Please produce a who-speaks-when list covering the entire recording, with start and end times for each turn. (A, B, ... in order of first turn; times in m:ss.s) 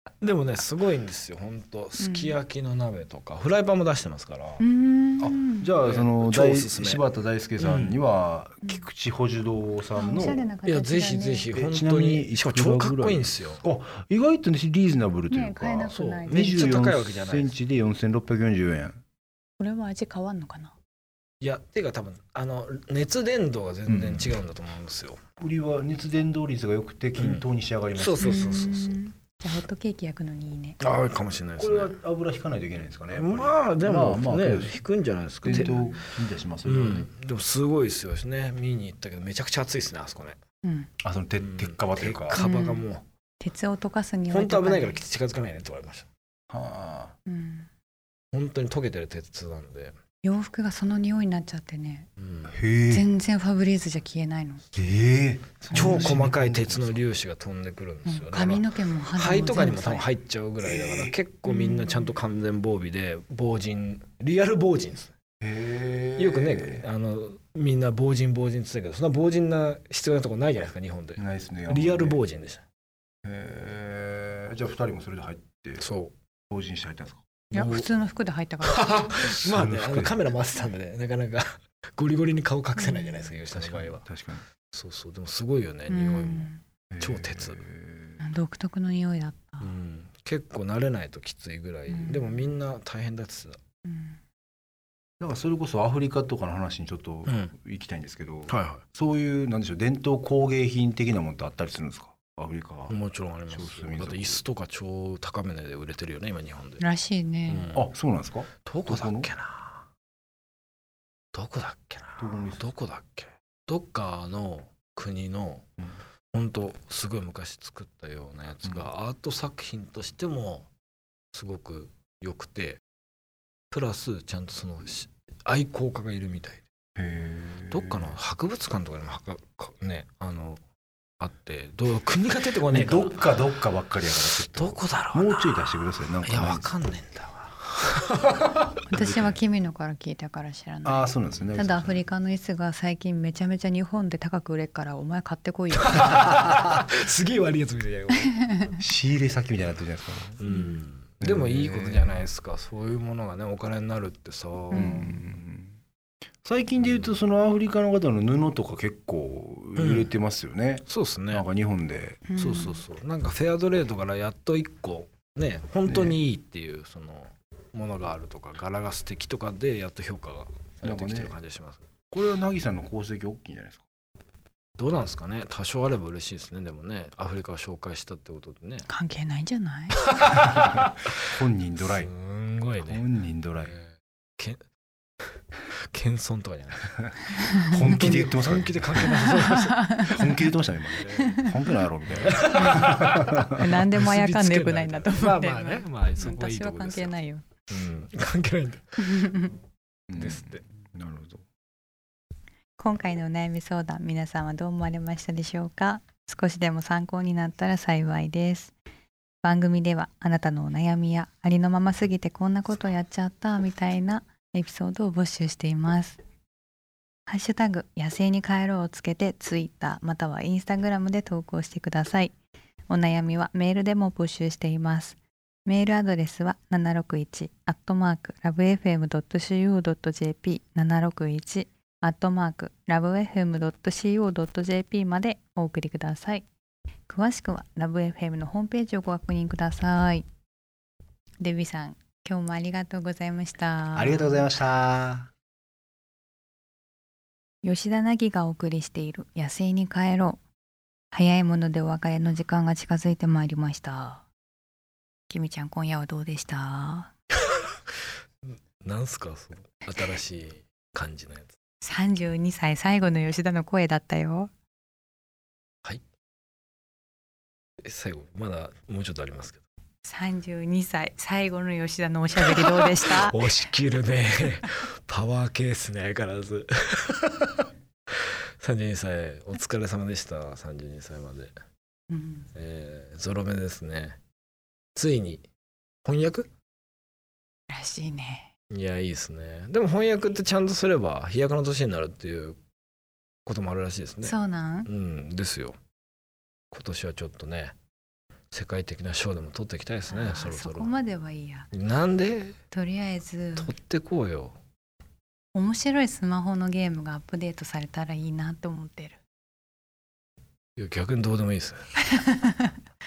0:00.2-0:04.6 A
0:02.0-0:02.4 B
0:04.6-0:05.7 B
0:05.2-0:10.5 C
0:05.8-0:07.0 A
0:07.6-0:08.0 A
0:09.9-0:11.5 B
0:10.6-0:13.6 A
0:11.5-0:19.0 C
0:15.3-0:16.7 B
0:15.9-0:17.5 A
0:19.6-0:20.7 B
0:21.4-0:25.2 A
0:23.8-0:24.3 C
0:25.4-0:28.6 C
0:27.2-0:29.0 A
0:28.2-0:30.8 B
0:30.8-0:31.9 A
0:31.6-0:34.8 C
0:33.1-0:36.0 A
0:35.4-0:37.1 C
0:35.5-0:35.9 B
0:36.6-0:40.4 A
0:40.6-0:40.9 B
0:41.0-0:42.4 C
0:41.4-0:43.0 A
0:42.3-0:42.8 B
0:43.4-0:45.0 B
0:44.3-0:46.1 A
0:46.5-0:47.1 C
0:47.2-0:47.7 B
0:48.3-0:49.9 A
0:50.2-0:52.1 B
0:52.2-0:52.6 A
0:52.5-0:53.1 C
0:52.9-0:54.6 B
0:54.7-0:57.0 C
0:55.7-1:05.1 A
0:55.8-0:56.1 B
0:58.0-1:00.1 B
1:00.6-1:01.1 C
1:01.4-1:02.1 B
1:05.4-1:06.9 C
1:06.2-1:12.6 A
1:11.2-1:12.2 C
1:13.2-1:15.8 C
1:15.8-1:16.1 A
1:16.5-1:17.2 C
1:17.5-1:17.9 A
1:17.5-1:19.0 B
1:18.6-1:24.0 A
1:19.2-1:20.2 C
1:22.8-1:23.3 B
1:23.5-1:24.4 C
1:24.7-1:27.6 A
1:25.9-1:26.6 B
1:26.9-1:28.2 C
1:28.2-1:29.7 B
1:29.6-1:33.6 A
1:31.9-1:32.4 B
1:33.8-1:34.2 B
1:35.2-1:43.0 C
1:37.2-1:37.5 A
1:38.5-1:38.8 A
1:42.9-1:46.8 A
1:43.5-1:44.4 C
1:46.8-1:47.8 B
1:47.5-1:47.8 A
1:47.7-1:49.3 C
1:48.6-1:49.9 A
1:51.3-1:55.6 A
1:52.2-1:52.6 C
1:56.3-2:00.7 A
2:01.3-2:02.8 A
2:03.7-2:06.6 A
2:07.0-2:08.2 C
2:07.7-2:10.6 A
2:11.2-2:13.4 A
2:12.7-2:16.7 C
2:14.2-2:15.7 A
2:16.2-2:18.7 A
2:18.9-2:26.2 B
2:18.9-2:19.4 C
2:20.8-2:22.0 C
2:21.3-2:21.6 A
2:25.7-2:28.7 A
2:28.4-2:28.8 B
2:28.8-2:30.4 C
2:30.4-2:35.1 A
2:30.5-2:30.8 B
2:31.2-2:32.2 C
2:34.7-2:35.7 C
2:34.7-2:35.2 B
2:36.4-2:42.3 C
2:39.8-2:40.1 A
2:40.9-2:41.4 A
2:42.3-2:42.8 B
2:42.4-2:51.8 A
2:45.8-2:46.2 C
2:50.8-2:51.3 C
2:52.1-2:53.8 C
2:54.8-2:58.9 A
2:58.8-3:00.0 B
3:00.0-3:01.2 A
3:00.6-3:02.1 C
3:01.8-3:03.0 A
3:02.8-3:03.7 C
3:03.6-3:04.6 A
3:05.9-3:10.3 A
3:07.6-3:09.3 C
3:09.0-3:10.2 B
3:10.0-3:13.6 C
3:11.0-3:11.5 A
3:11.2-3:11.5 B
3:12.1-3:17.1 A
3:13.4-3:17.4 B
3:17.7-3:19.5 A
3:19.0-3:19.5 B
3:20.1-3:21.4 C
3:20.1-3:20.6 A
3:22.8-3:28.7 B
3:29.4-3:36.2 B
3:37.3-3:42.3 B
3:42.9-3:56.4 B
3:57.1-4:00.2 B
4:01.4-4:04.5 B
4:03.9-4:05.3 C
4:07.6-4:10.4 B
4:11.1-4:14.2 B
4:15.3-4:17.1 B
4:18.8-4:21.5 A
4:21.8-4:24.5 B
4:27.8-4:29.6 A
4:30.0-4:33.6 B
4:32.4-4:37.7 A
4:38.2-4:41.5 A
4:42.1-4:42.5 B
4:42.5-4:44.2 A
4:44.9-4:45.4 A
4:46.0-4:46.5 A
4:47.7-4:48.5 B
4:48.7-4:52.6 A
4:53.4-4:55.8 A
4:54.2-4:54.9 B
4:56.7-4:57.7 A
4:58.5-5:00.9 A
5:00.1-5:01.7 B
5:01.7-5:02.6 A
5:02.7-5:03.7 B
5:03.6-5:04.6 A
5:05.5-5:09.2 B
5:10.8-5:12.0 A
5:12.0-5:12.8 B